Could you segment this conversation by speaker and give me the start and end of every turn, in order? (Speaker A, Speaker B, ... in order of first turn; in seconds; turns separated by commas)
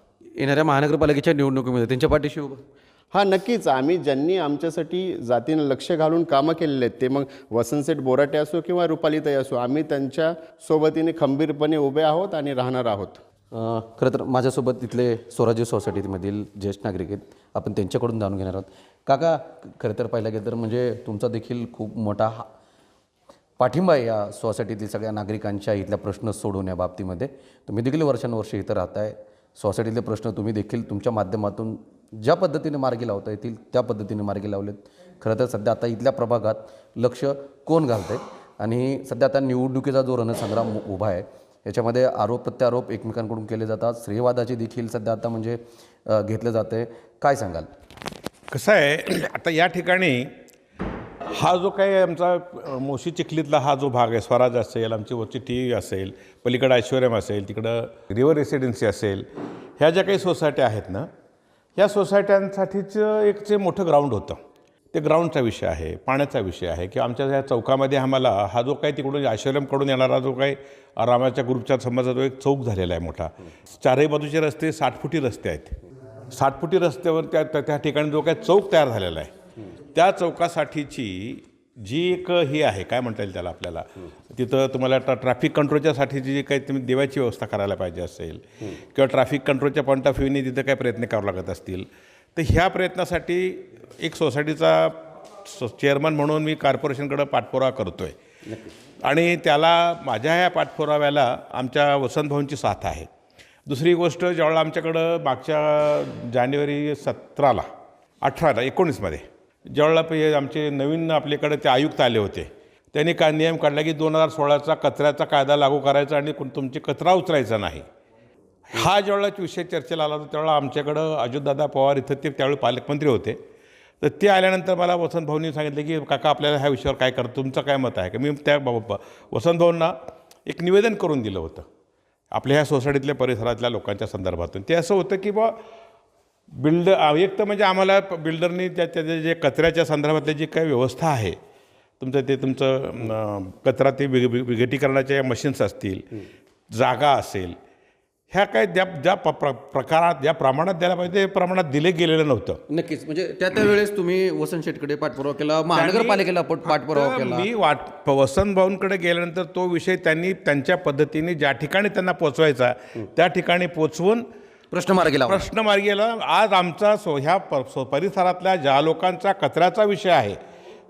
Speaker A: 0.4-2.6, Speaker B: 3.1-13.2, Speaker A: 13.5-22.5, Speaker A: 23.6-47.7, Speaker C: 48.5-50.3, Speaker C: 51.4-59.3, Speaker C: 59.8-61.1, Speaker C: 61.8-64.4, Speaker C: 64.9-75.8, Speaker C: 76.3-79.3, Speaker C: 80.0-88.4, Speaker C: 88.9-98.2, Speaker A: 98.5-98.7, Speaker C: 99.0-103.1, Speaker C: 103.7-107.7, Speaker C: 108.2-117.8, Speaker C: 118.7-123.4, Speaker C: 124.0-129.9, Speaker C: 130.5-131.7, Speaker C: 132.3-135.5, Speaker C: 136.6-141.4, Speaker C: 142.0-146.0, Speaker C: 146.7-147.6, Speaker C: 148.3-152.6, Speaker A: 152.7-157.5, Speaker C: 155.7-164.2, Speaker A: 164.7-165.4, Speaker C: 165.2-170.4